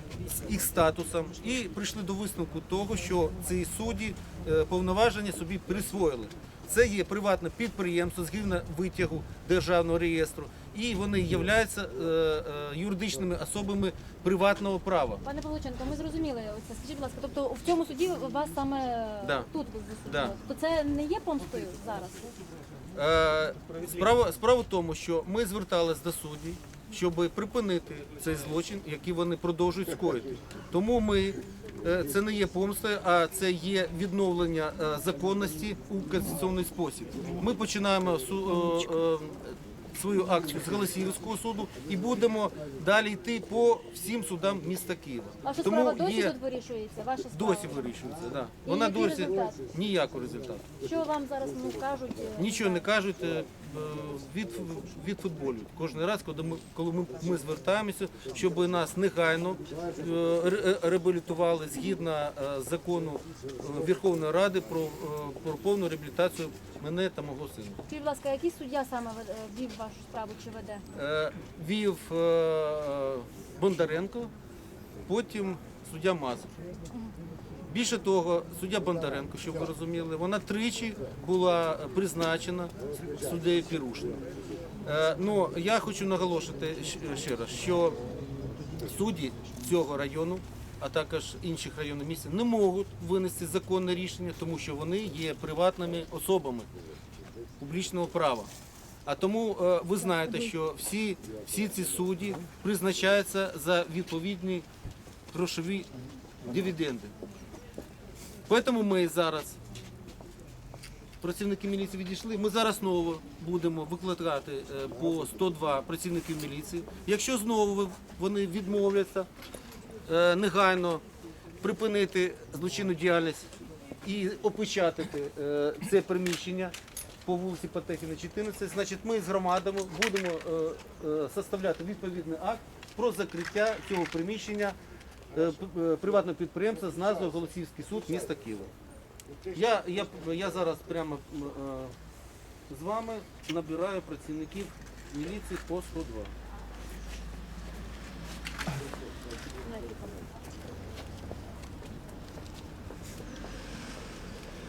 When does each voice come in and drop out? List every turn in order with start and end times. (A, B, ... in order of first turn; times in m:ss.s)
0:00.2-0:15.2 A
0:15.2-0:22.3 B
0:19.2-0:19.5 A
0:20.0-0:20.3 A
0:22.9-0:46.4 A
0:45.4-0:47.9 B
0:47.3-0:50.7 A
0:48.6-0:49.6 B
0:50.8-0:52.9 B
0:52.4-1:07.8 A
1:07.9-1:10.8 B
1:10.9-1:14.3 A
1:15.1-1:16.5 A
1:17.7-1:24.2 A
1:24.8-1:28.0 A
1:28.8-1:36.7 A
1:37.6-1:38.5 A
1:39.1-1:44.7 A
1:45.3-1:45.9 A
1:46.4-1:47.1 A
1:48.5-1:49.6 A
1:51.2-1:59.3 A
2:00.0-2:01.0 A
2:01.6-2:03.5 A
2:04.0-2:06.7 A
2:07.2-2:14.8 A
2:15.3-2:18.7 A
2:19.5-2:22.0 A
2:22.7-2:26.3 A
2:29.6-2:30.2 B